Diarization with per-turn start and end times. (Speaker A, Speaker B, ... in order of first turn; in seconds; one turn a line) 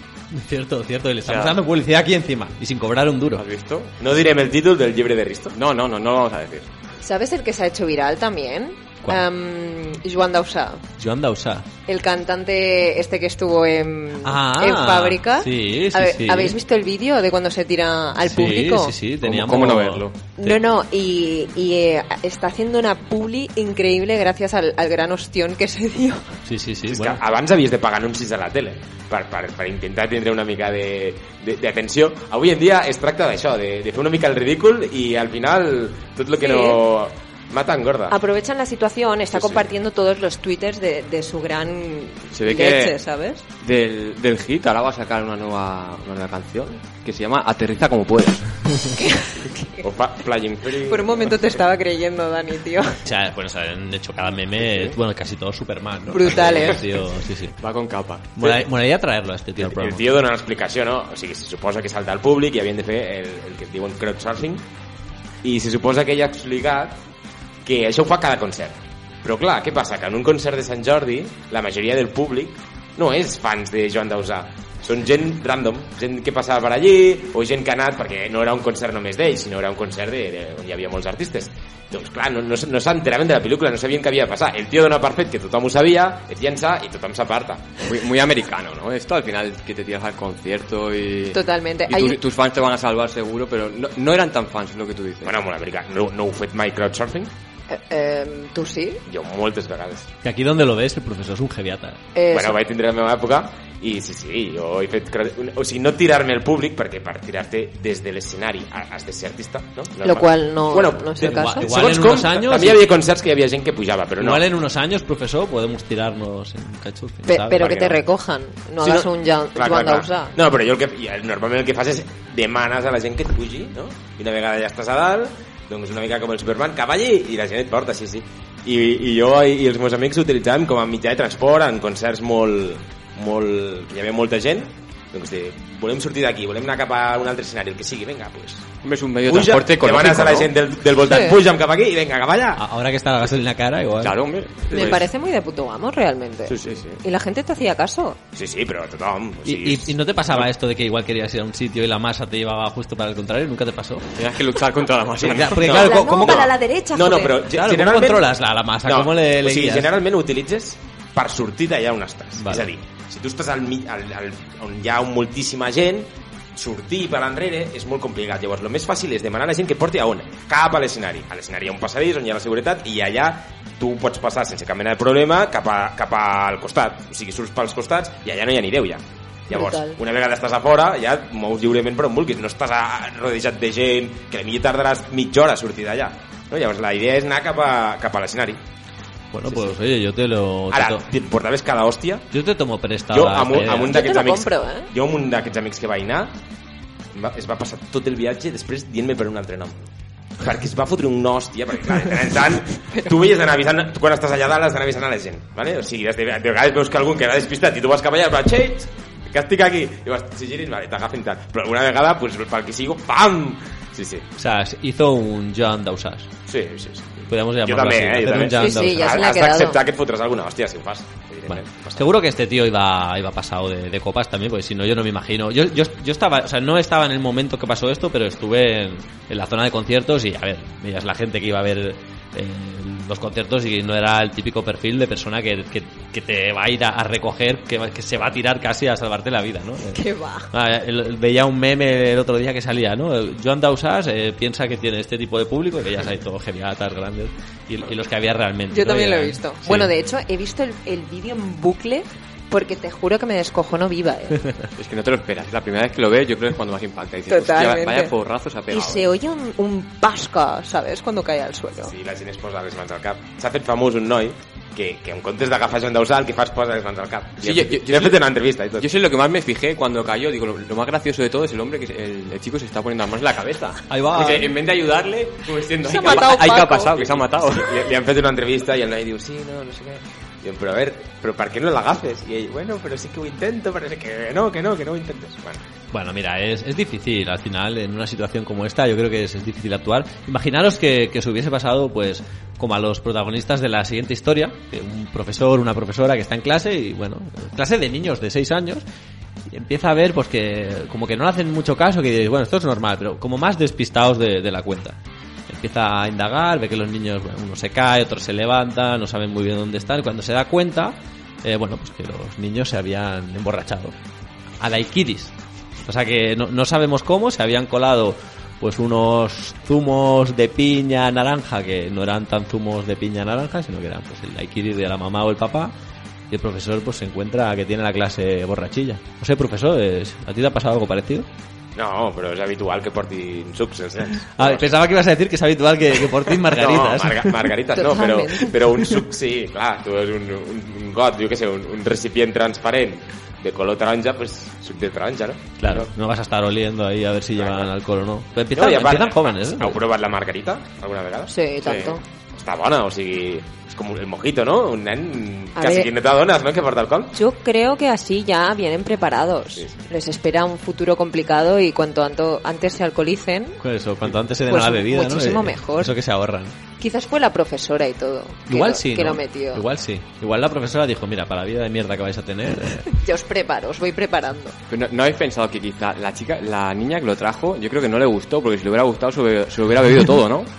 Speaker A: 0.3-3.5
Speaker B: 1.2-1.6
Speaker B: 3.3-3.9
Speaker C: 4.0-5.6
Speaker B: 5.5-6.7
Speaker D: 7.0-10.8
Speaker A: 11.0-11.7
Speaker D: 11.9-18.9
Speaker A: 14.2-16.6
Speaker A: 18.2-20.1
Speaker B: 19.2-20.5
Speaker D: 20.4-26.4
Speaker A: 26.4-27.2
Speaker C: 26.9-38.1
Speaker D: 36.4-36.8
Speaker D: 38.1-43.4
Speaker B: 42.3-42.9
Speaker B: 43.6-48.8
Speaker D: 49.0-49.8
Speaker C: 49.8-51.5
Speaker D: 50.8-53.0
Speaker A: 53.0-57.5
Speaker B: 54.7-54.9
Speaker D: 56.1-56.9
Speaker B: 56.4-56.8
Speaker B: 57.5-58.6
Speaker A: 58.4-60.0
Speaker C: 59.6-64.7
Speaker C: 65.4-67.0
Speaker C: 67.6-87.7
Speaker B: 87.8-95.3
Speaker D: 91.3-92.2
Speaker C: 95.2-97.3
Speaker D: 97.7-99.0
Speaker C: 99.1-100.1
Speaker A: 100.2-102.0
Speaker D: 102.1-102.6
Speaker C: 102.3-114.4
Speaker D: 110.0-111.7
Speaker A: 111.2-112.8
Speaker A: 114.2-117.7
Speaker D: 117.3-120.3
Speaker C: 117.5-118.0
Speaker C: 118.8-138.7
Speaker B: 138.8-140.5
Speaker C: 139.2-142.6
Speaker D: 141.1-141.4
Speaker A: 142.6-144.2
Speaker B: 144.0-145.1
Speaker D: 144.7-148.2
Speaker B: 146.5-147.0
Speaker C: 148.3-150.5
Speaker A: 149.4-154.1
Speaker B: 154.2-155.7
Speaker C: 155.2-158.3
Speaker A: 155.2-156.5
Speaker D: 155.6-157.4
Speaker A: 157.5-159.9
Speaker C: 158.8-188.6
Speaker A: 162.4-162.7
Speaker D: 179.5-180.0
Speaker A: 189.3-191.0
Speaker C: 190.7-192.3
Speaker A: 192.3-194.0
Speaker C: 193.1-196.4
Speaker D: 193.9-194.9
Speaker C: 197.1-214.3
Speaker A: 214.3-216.3
Speaker C: 216.5-222.1
Speaker A: 217.3-219.2
Speaker D: 218.5-219.8
Speaker A: 221.5-249.9
Speaker D: 239.9-240.5
Speaker D: 248.7-254.4
Speaker B: 254.8-259.1
Speaker D: 257.3-258.1
Speaker D: 258.7-261.9
Speaker C: 261.8-268.9
Speaker B: 267.4-268.2
Speaker B: 268.8-277.9
Speaker A: 273.9-274.5
Speaker D: 275.8-276.9
Speaker C: 276.9-285.6
Speaker A: 285.9-298.8
Speaker A: 299.5-313.9
Speaker A: 314.6-325.7
Speaker A: 326.3-331.3
Speaker C: 331.7-334.7
Speaker A: 334.3-337.4
Speaker C: 336.3-345.9
Speaker D: 337.7-338.6
Speaker A: 345.6-349.8
Speaker C: 347.4-347.7
Speaker C: 348.5-351.3
Speaker D: 351.3-352.0
Speaker B: 351.6-352.0
Speaker C: 352.3-357.1
Speaker D: 355.6-355.9
Speaker D: 357.1-363.6
Speaker A: 363.6-366.5
Speaker D: 364.4-365.9
Speaker D: 366.8-369.6
Speaker A: 368.5-372.9
Speaker D: 372.9-374.5
Speaker B: 374.7-380.5